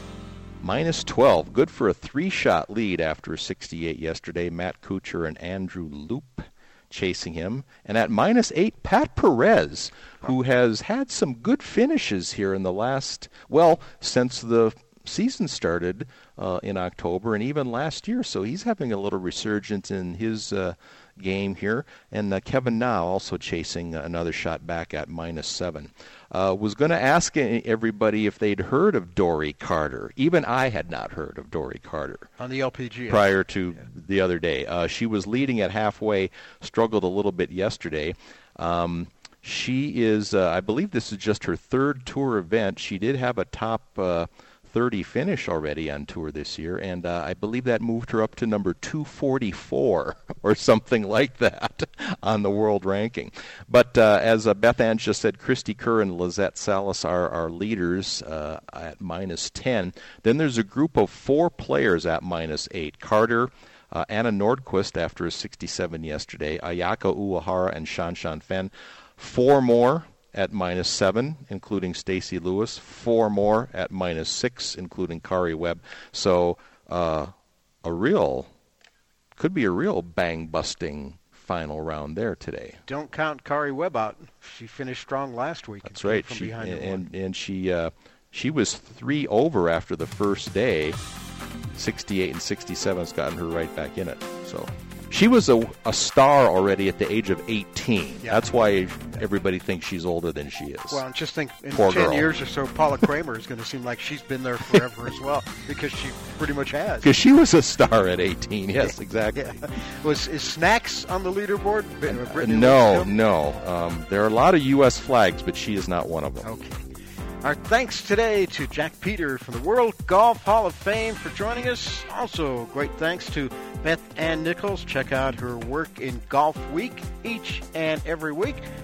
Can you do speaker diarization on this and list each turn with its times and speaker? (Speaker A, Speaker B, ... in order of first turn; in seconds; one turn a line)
Speaker A: 0.6-32.3
Speaker B: 32.4-33.5
Speaker A: 33.1-77.3
Speaker A: 77.8-78.5
Speaker A: 79.4-82.8
Speaker B: 82.9-87.0
Speaker A: 85.8-91.0
Speaker A: 91.7-101.0
Speaker B: 100.9-107.1
Speaker A: 101.7-102.3
Speaker A: 107.0-109.6
Speaker B: 108.8-113.1
Speaker A: 112.1-116.5
Speaker B: 116.4-116.8
Speaker B: 117.4-128.6